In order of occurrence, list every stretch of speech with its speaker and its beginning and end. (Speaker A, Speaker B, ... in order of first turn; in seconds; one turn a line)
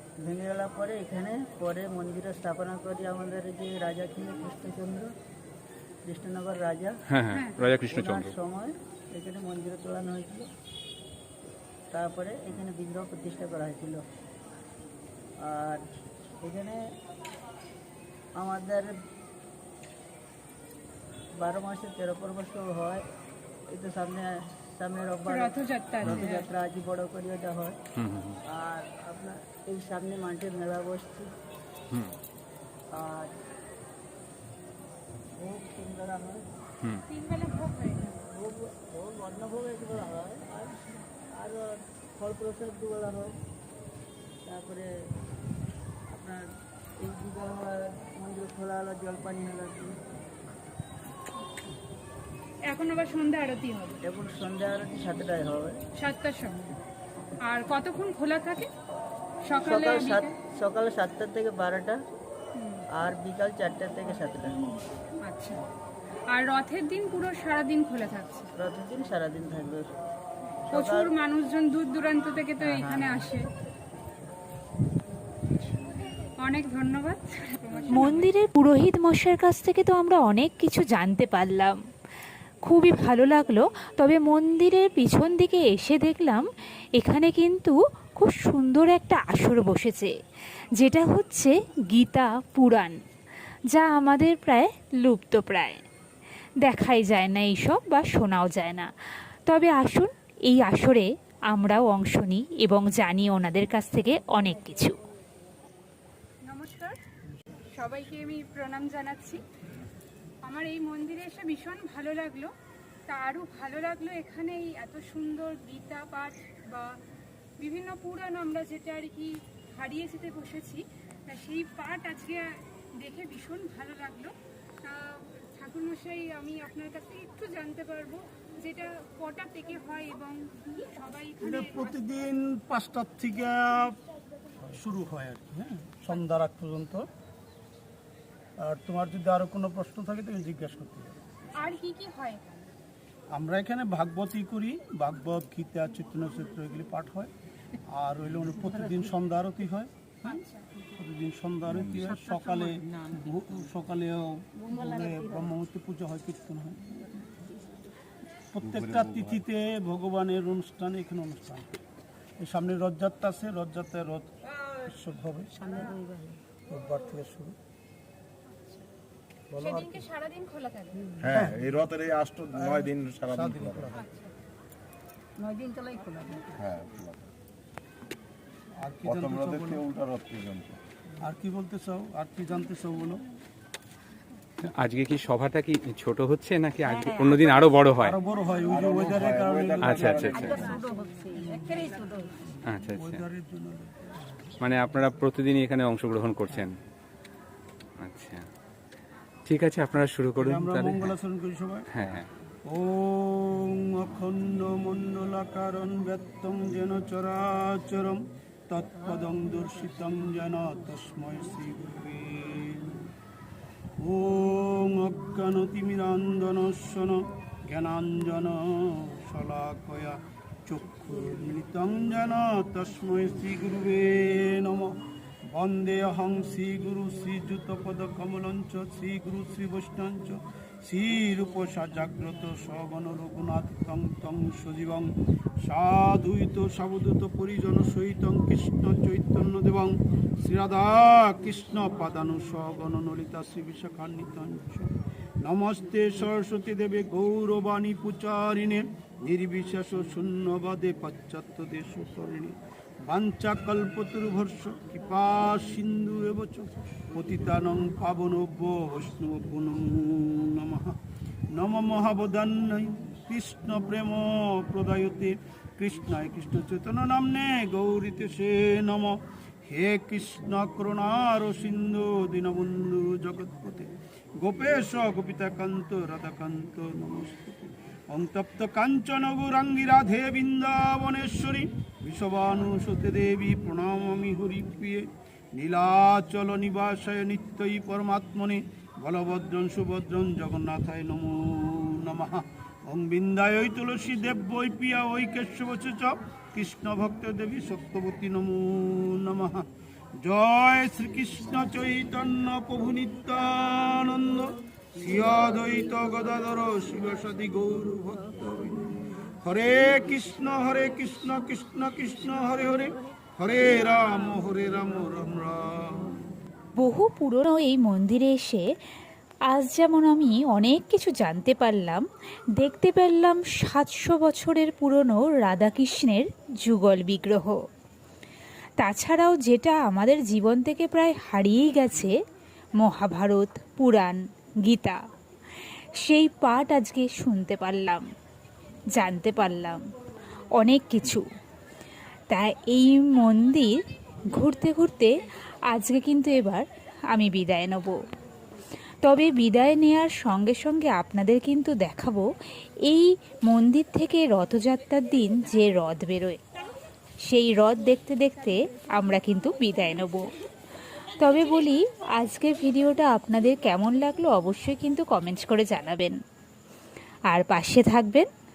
Speaker A: 0.2-5.1
Speaker A: 6.1-7.0
Speaker B: 7.1-8.3
Speaker C: 7.3-7.6
Speaker A: 7.9-10.5
Speaker A: 11.9-14.0
Speaker A: 15.4-15.8
Speaker A: 16.4-16.8
Speaker A: 18.4-18.9
Speaker A: 21.4-23.0
Speaker A: 23.7-27.8
Speaker C: 25.3-26.5
Speaker B: 28.0-28.4
Speaker A: 28.5-31.3
Speaker B: 31.9-32.2
Speaker A: 32.9-33.3
Speaker A: 35.4-36.4
Speaker C: 37.1-38.2
Speaker A: 38.3-43.4
Speaker A: 44.5-44.9
Speaker A: 46.1-46.4
Speaker A: 47.0-50.0
Speaker C: 52.7-54.0
Speaker A: 54.0-55.8
Speaker C: 56.0-56.7
Speaker C: 57.4-58.7
Speaker C: 59.5-60.3
Speaker A: 59.6-62.0
Speaker C: 62.6-62.8
Speaker A: 62.9-64.6
Speaker C: 65.2-65.6
Speaker C: 66.3-68.5
Speaker A: 68.6-69.8
Speaker A: 70.7-71.1
Speaker C: 70.7-73.5
Speaker A: 72.6-73.3
Speaker C: 76.4-78.2
Speaker D: 77.9-81.8
Speaker D: 82.7-90.1
Speaker D: 90.8-93.0
Speaker D: 93.7-95.8
Speaker D: 96.6-98.9
Speaker D: 99.5-105.0
Speaker C: 106.5-107.0
Speaker C: 107.7-109.4
Speaker C: 110.4-112.5
Speaker C: 113.1-117.0
Speaker C: 117.6-131.9
Speaker E: 131.4-134.0
Speaker E: 134.6-137.1
Speaker E: 138.6-141.2
Speaker C: 141.6-142.4
Speaker E: 143.3-147.3
Speaker E: 147.9-149.9
Speaker C: 150.2-150.6
Speaker E: 150.9-157.1
Speaker E: 158.5-161.7
Speaker F: 158.7-159.4
Speaker E: 162.4-164.3
Speaker E: 164.8-165.9
Speaker E: 166.7-167.6
Speaker C: 169.6-171.1
Speaker F: 171.2-173.9
Speaker E: 171.3-171.8
Speaker E: 172.5-174.0
Speaker C: 174.0-174.3
Speaker F: 176.4-177.2
Speaker E: 178.8-179.9
Speaker F: 179.1-180.8
Speaker E: 181.2-183.2
Speaker B: 184.6-188.2
Speaker E: 188.0-190.9
Speaker F: 188.7-190.1
Speaker B: 189.8-190.7
Speaker E: 191.5-192.0
Speaker B: 192.7-193.2
Speaker E: 192.9-194.1
Speaker B: 194.6-196.8
Speaker B: 198.0-198.4
Speaker B: 199.5-201.2
Speaker E: 200.4-201.9
Speaker B: 201.9-202.3
Speaker E: 202.7-213.0
Speaker E: 214.0-225.0
Speaker E: 225.5-235.1
Speaker E: 235.6-261.0
Speaker E: 261.5-299.7
Speaker E: 300.2-316.1
Speaker D: 316.8-318.6
Speaker D: 319.5-322.0
Speaker D: 322.6-327.6
Speaker D: 328.8-332.1
Speaker D: 332.8-335.0
Speaker D: 336.0-338.0
Speaker D: 338.9-339.8
Speaker D: 340.6-341.2
Speaker D: 342.3-343.8
Speaker D: 344.3-345.1
Speaker D: 345.7-348.0
Speaker D: 349.0-352.3
Speaker D: 352.9-356.4
Speaker D: 357.2-360.3
Speaker D: 361.2-366.2
Speaker D: 367.3-368.3